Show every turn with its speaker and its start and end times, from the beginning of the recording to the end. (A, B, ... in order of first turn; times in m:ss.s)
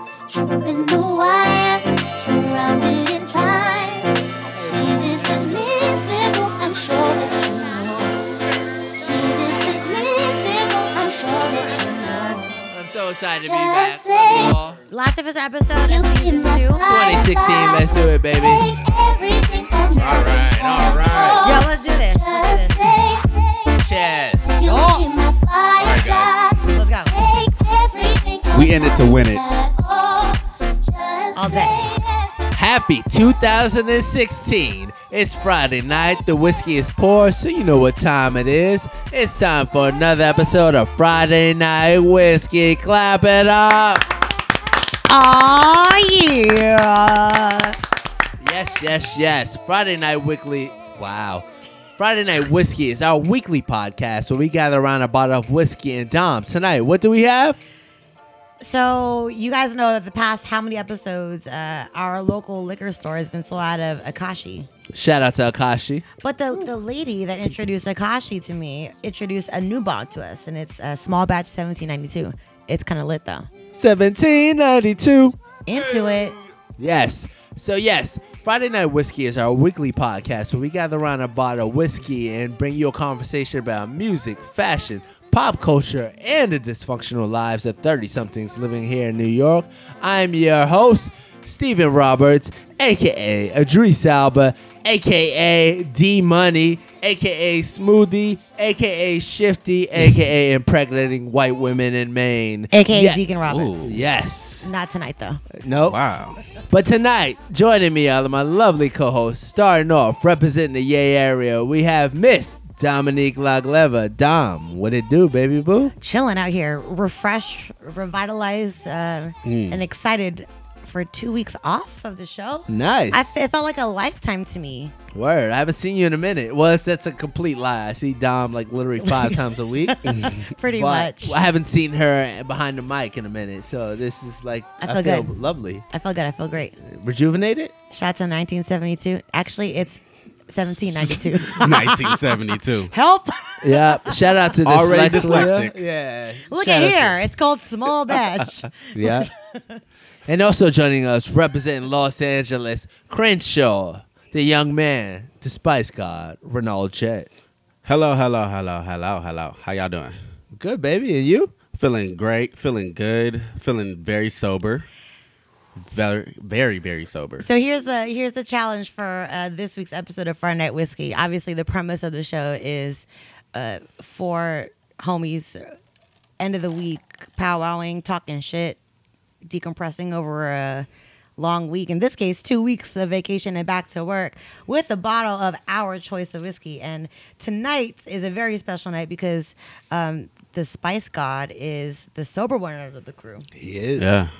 0:00.3-0:08.3 A
0:08.9-0:12.7 A
0:12.7-0:14.8 B
0:13.4-0:14.6 A
0:14.9-0:16.8 C
0:15.8-0:23.8 A
0:16.9-0:18.6 B
0:20.0-0:21.4 B
0:21.0-0:21.2 D
0:21.4-0:22.8 C
0:23.8-0:24.6 B
0:24.5-0:32.4 A
0:24.6-0:25.0 C
0:25.8-0:26.3 D
0:26.7-0:27.1 C
0:28.5-0:29.4 D
0:31.3-0:31.9 C
0:32.5-0:44.1 B
0:45.1-0:47.8 C
0:48.4-0:51.5 B
0:52.0-0:57.6 B
0:58.6-1:04.7 C
1:04.9-1:06.0 B
1:06.2-1:13.5 C
1:13.7-1:15.4 B
1:15.6-1:16.4 C
1:16.8-1:43.2 B
1:42.7-1:43.8 C
1:43.5-1:44.0 D
1:43.8-1:44.7 B
1:44.6-1:45.4 C
1:45.6-1:46.0 B
1:45.8-1:46.4 D
1:46.7-1:55.9 B
1:56.0-2:04.9 C
1:59.4-1:59.8 D
2:02.7-2:03.3 B
2:05.1-2:10.0 B
2:09.0-2:11.4 C
2:10.8-2:15.8 B
2:14.8-2:15.3 C
2:15.9-2:16.8 C
2:16.8-2:17.7 B
2:17.9-2:22.4 C
2:21.5-2:22.9 D
2:22.9-2:24.5 C
2:23.6-2:27.2 B
2:24.6-2:25.8 D
2:25.1-2:25.5 C
2:26.5-2:29.8 C
2:28.9-2:29.3 B
2:30.3-2:37.3 B
2:37.8-2:40.2 D
2:40.5-2:41.5 B
2:41.7-2:44.9 D
2:45.8-2:47.5 D
2:47.4-2:55.7 C
2:56.4-2:58.8 C
2:59.4-3:00.9 C
3:01.4-3:13.5 C
3:13.5-3:14.2 B
3:14.0-3:14.3 D